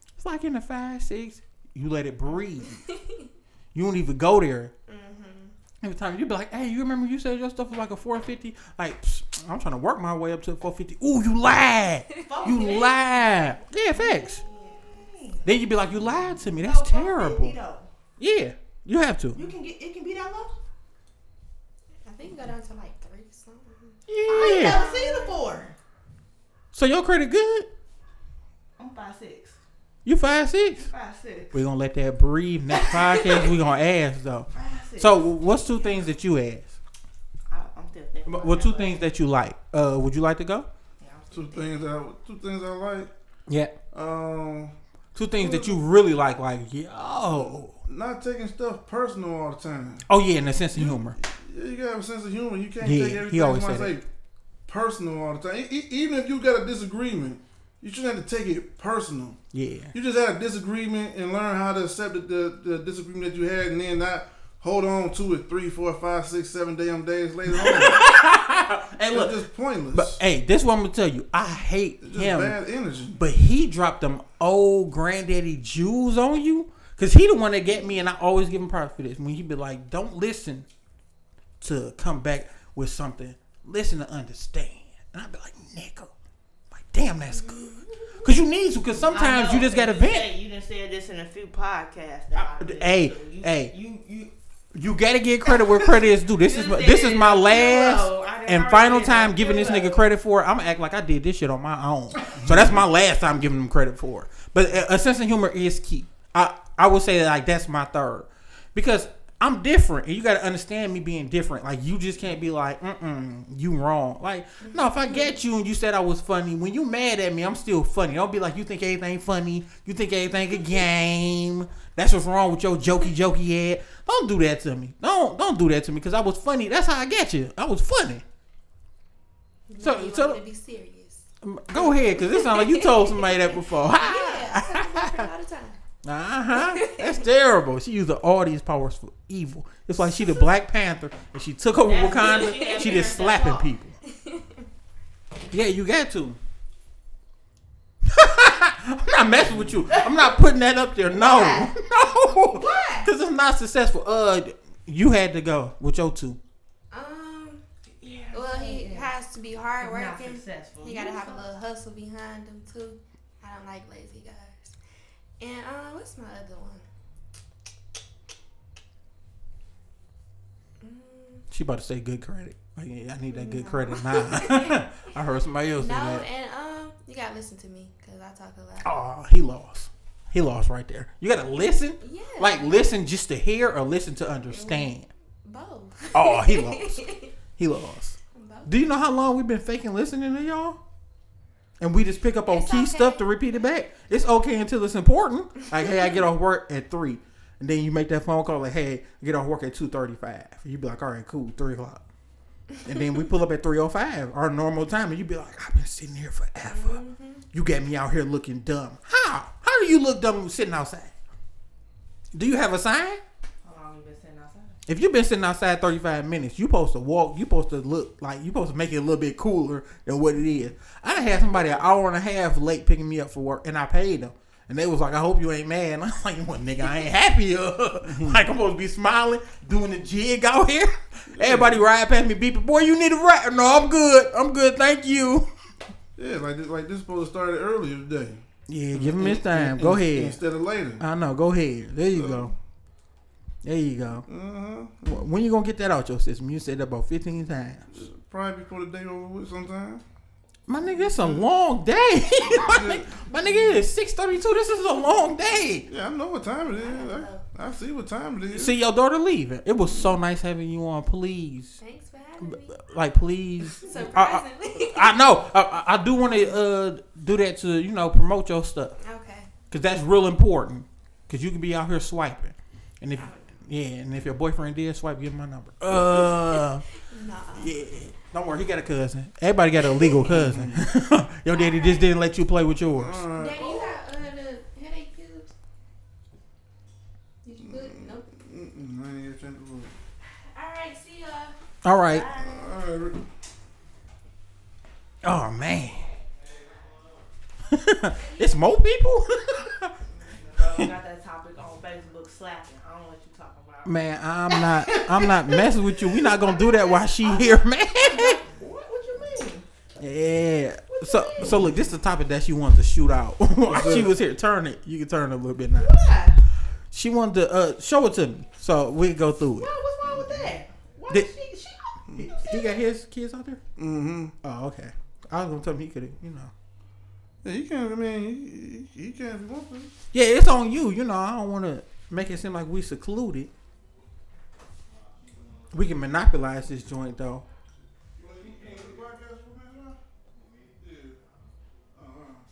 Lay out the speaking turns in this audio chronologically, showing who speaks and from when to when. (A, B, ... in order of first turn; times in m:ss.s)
0:00.2-0:02.8 A
0:02.7-0:03.3 B
0:03.7-0:04.7 A
0:04.9-0:05.5 B
0:05.8-0:14.4 A
0:12.1-0:12.8 B
0:12.2-0:13.0 C
0:14.0-0:15.1 B
0:14.3-0:15.5 C
0:15.4-0:17.6 A
0:16.6-0:17.9 C
0:18.2-0:19.4 A
0:19.3-0:20.5 C
0:22.0-0:25.4 B
0:24.1-0:24.8 A
0:24.3-0:25.7 C
0:26.7-0:27.7 A
0:28.8-0:29.6 C
0:30.0-0:30.9 A
0:30.8-0:31.5 C
0:31.5-0:36.8 A
0:32.7-0:33.5 C
0:34.5-0:35.3 C
0:37.5-0:39.0 C
0:38.2-0:40.7 A
0:41.0-0:41.9 C
0:41.3-0:43.1 D
0:43.5-0:43.7 A
0:43.9-0:44.7 D
0:45.1-0:47.7 A
0:45.4-0:45.8 D
0:47.3-0:50.0 D
0:50.1-0:51.2 A
0:50.7-0:54.0 D
0:52.8-0:54.0 A
0:54.7-0:59.4 D
0:59.5-0:59.9 A
0:59.9-1:08.0 D
1:07.5-1:12.5 A
1:09.1-1:10.2 D
1:12.0-1:13.2 D
1:13.2-1:20.7 A
1:21.6-1:26.1 A
1:26.7-1:30.3 A
1:27.3-1:28.2 B
1:29.1-1:34.3 C
1:32.3-1:33.7 A
1:34.7-2:08.2 A
1:35.5-1:40.1 C
1:42.4-1:42.8 D
1:54.6-1:55.4 B
2:09.7-2:15.8 B
2:09.8-2:10.4 A
2:11.4-2:15.3 A
2:16.0-2:24.0 A
2:16.6-2:17.2 B
2:20.0-2:20.5 B
2:21.8-2:23.7 C
2:24.0-2:24.6 B
2:25.5-2:26.4 A
2:28.0-2:36.4 A
2:29.5-2:29.7 D
2:29.9-2:30.3 C
2:31.1-2:31.7 C
2:32.5-2:33.1 C
2:36.9-2:37.6 B
2:38.0-2:39.1 C
2:38.3-2:44.7 B
2:39.8-2:41.5 C
2:45.4-2:46.8 B
2:50.8-2:51.4 B
2:51.5-2:56.2 A
2:53.3-2:55.1 B
2:55.8-2:58.9 B
2:58.8-3:05.1 A
3:02.0-3:02.7 B
3:04.5-3:07.3 B
3:06.1-3:07.0 A
3:07.6-3:10.8 A
3:08.3-3:08.9 B
3:11.8-3:22.0 A
3:12.5-3:14.3 B
3:15.8-3:16.2 B
3:22.7-3:23.0 B
3:22.8-3:27.0 A
3:26.6-3:27.4 B
3:27.5-3:31.1 A
3:32.3-3:33.2 A
3:33.6-3:34.8 C
3:34.9-3:55.5 A
3:48.1-3:48.4 D
3:51.3-3:51.8 D
3:56.2-3:58.4 D
3:58.7-4:00.4 A
3:58.9-4:01.0 D
4:01.0-4:02.5 A
4:02.1-4:02.5 D
4:03.6-4:04.3 A
4:04.3-4:05.2 D
4:05.0-4:07.9 A
4:07.9-4:10.0 D
4:10.7-4:15.9 A
4:11.0-4:11.4 D
4:12.5-4:13.1 D
4:15.9-4:18.7 D
4:16.6-4:17.4 B
4:18.5-4:21.8 A
4:21.8-4:22.8 B
4:22.4-4:29.0 A
4:23.7-4:25.2 B
4:29.0-4:29.5 B
4:29.7-4:36.8 A
4:33.1-4:33.5 B
4:37.0-4:37.7 B
4:37.5-4:43.2 A
4:39.8-4:40.3 B
4:40.2-4:40.8 D
4:41.5-4:42.1 B
4:43.0-4:43.9 D
4:43.4-4:45.5 B
4:47.4-4:48.3 B
4:47.6-4:49.9 D
4:50.5-4:51.5 B
4:51.8-4:52.3 A
4:52.1-4:52.7 C
4:52.3-4:53.2 D
4:55.2-4:56.1 A
4:57.7-4:59.9 A
5:00.6-5:04.0 C
5:00.6-5:00.9 A
5:03.8-5:08.4 A
5:04.5-5:09.6 C
5:10.0-5:15.9 A
5:10.9-5:11.6 C
5:13.7-5:14.1 D
5:15.8-5:16.4 C
5:16.9-5:19.7 A
5:19.6-5:22.9 C
5:20.0-5:20.6 D
5:22.3-5:23.6 A
5:23.8-5:24.3 D
5:24.4-5:26.5 A
5:27.4-5:29.9 D
5:30.1-5:33.5 A
5:35.7-5:37.4 A
5:38.2-5:40.0 D
5:40.5-5:41.2 D
5:41.9-5:42.4 D